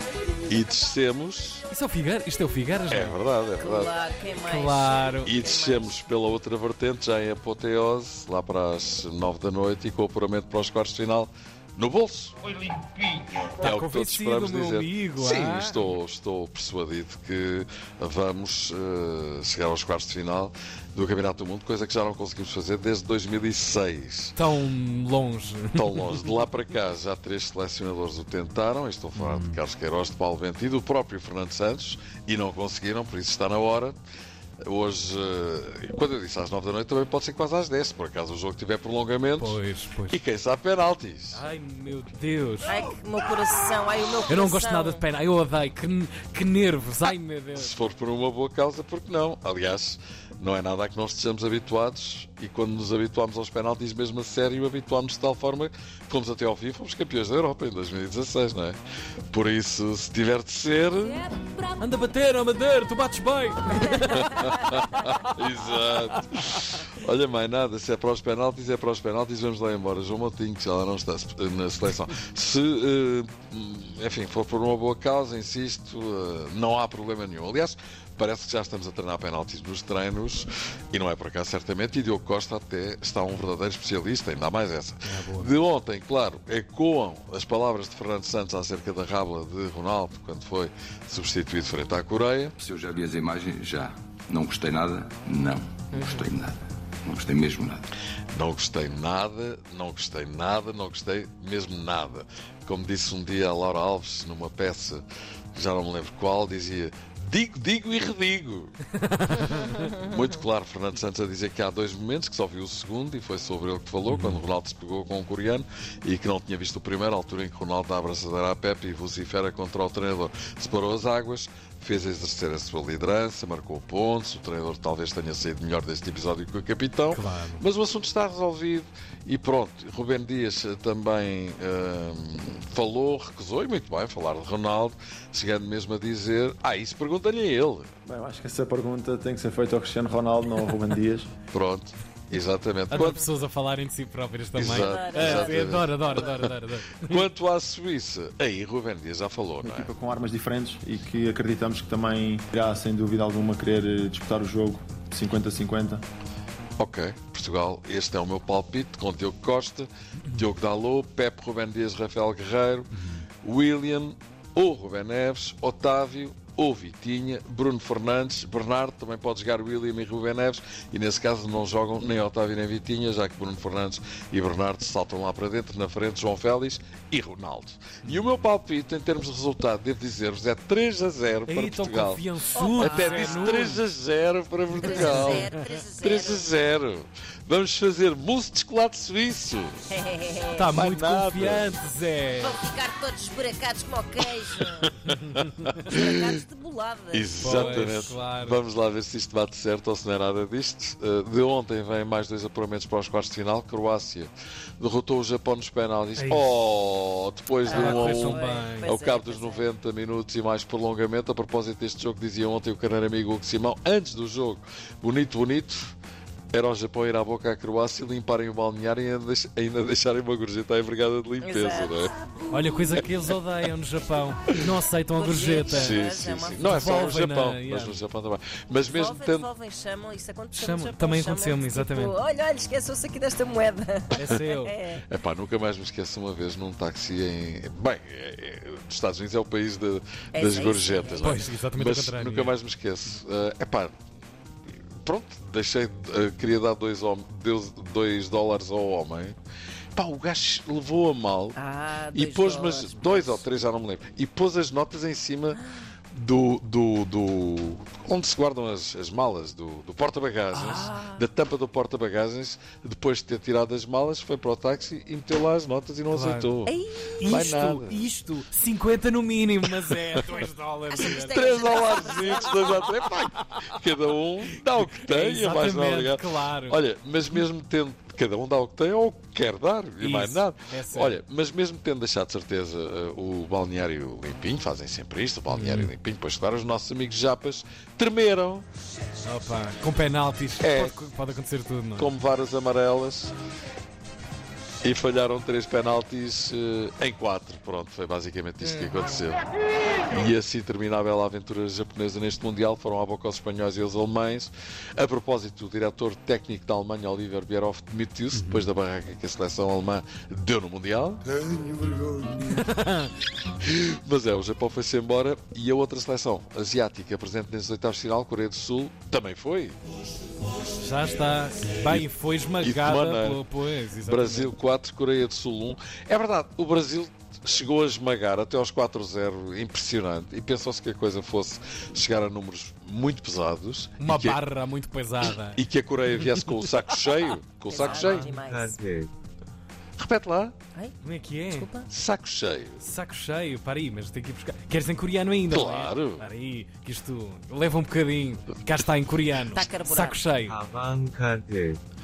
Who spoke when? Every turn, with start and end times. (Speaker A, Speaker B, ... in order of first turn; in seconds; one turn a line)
Speaker A: 0.5-1.7
Speaker B: 1.7-3.2
Speaker A: 2.9-3.9
Speaker C: 3.5-6.0
Speaker B: 4.5-5.3
Speaker A: 5.2-12.3
Speaker B: 13.6-15.9
Speaker A: 13.6-24.4
Speaker B: 24.4-26.2
Speaker A: 25.8-34.0
Speaker B: 29.1-29.6
Speaker A: 34.6-41.4
Speaker B: 39.4-40.2
Speaker B: 41.3-42.8
Speaker C: 42.7-45.0
Speaker B: 44.3-47.8
Speaker A: 47.5-58.8
Speaker A: 59.3-61.3
Speaker B: 61.8-65.2
Speaker C: 63.7-64.5
Speaker A: 64.1-92.6
Speaker B: 65.7-66.8
Speaker B: 85.0-85.5
Speaker D: 92.6-97.9
Speaker C: 95.9-96.3
Speaker A: 98.3-105.0
Speaker A: 105.5-108.7
Speaker B: 109.1-109.7
Speaker C: 109.5-110.4
Speaker A: 110.0-137.9
Speaker B: 114.1-114.4
Speaker B: 127.1-127.6
Speaker E: 138.1-141.3
Speaker A: 141.5-143.2
Speaker B: 142.9-147.2
Speaker A: 144.6-146.5
Speaker C: 144.8-146.4
Speaker A: 147.1-149.9
Speaker E: 149.6-156.0
Speaker A: 156.8-162.9
Speaker A: 163.4-189.8
Speaker B: 181.5-183.8
Speaker C: 182.5-183.7
Speaker B: 184.8-185.5
Speaker C: 184.8-186.5
Speaker C: 189.9-190.7
Speaker B: 190.6-192.6
Speaker A: 190.7-191.7
Speaker C: 192.4-194.9
Speaker A: 194.4-195.4
Speaker B: 195.1-195.7
Speaker A: 195.9-196.3
Speaker C: 195.9-197.9
Speaker A: 197.1-215.9
Speaker B: 197.4-198.6
Speaker B: 206.2-206.6
Speaker C: 207.6-209.7
Speaker B: 207.7-208.9
Speaker A: 216.5-222.1
Speaker C: 221.4-222.1
Speaker B: 222.5-226.0
Speaker C: 225.2-227.2
Speaker A: 225.7-229.5
Speaker B: 226.6-228.0
Speaker C: 228.8-235.0
Speaker B: 230.5-232.2
Speaker B: 234.1-234.8
Speaker A: 235.1-243.9
Speaker C: 240.3-241.6
Speaker B: 241.2-242.5
Speaker A: 245.0-249.3
Speaker A: 249.9-251.6
Speaker C: 251.6-253.5
Speaker A: 252.1-255.6
Speaker C: 255.5-255.8
Speaker A: 256.1-266.8
Speaker B: 260.5-260.9
Speaker C: 260.6-261.3
Speaker B: 266.1-266.5
Speaker C: 266.7-267.4
Speaker B: 267.2-272.3
Speaker A: 267.3-268.1
Speaker C: 270.9-273.0
Speaker A: 271.3-288.6
Speaker B: 274.7-276.8
Speaker B: 280.0-281.2
Speaker B: 285.5-285.9
Speaker B: 289.2-292.1
Speaker A: 290.6-291.0
Speaker A: 292.0-293.3
Speaker A: 294.8-299.4
Speaker A: 300.1-311.2
Speaker B: 308.3-308.7
Speaker B: 312.5-313.1
Speaker A: 313.6-319.8
Speaker B: 320.8-324.5
Speaker A: 322.6-323.5
Speaker A: 324.1-334.4
Speaker B: 334.0-336.5
Speaker A: 335.6-338.4
Speaker C: 337.7-338.8
Speaker F: 337.8-339.1
Speaker A: 340.0-340.6
Speaker B: 341.0-341.7
Speaker C: 341.5-341.9
Speaker A: 341.9-342.8
Speaker B: 342.8-350.6
Speaker A: 345.5-346.2
Speaker C: 349.5-350.2
Speaker F: 350.4-351.8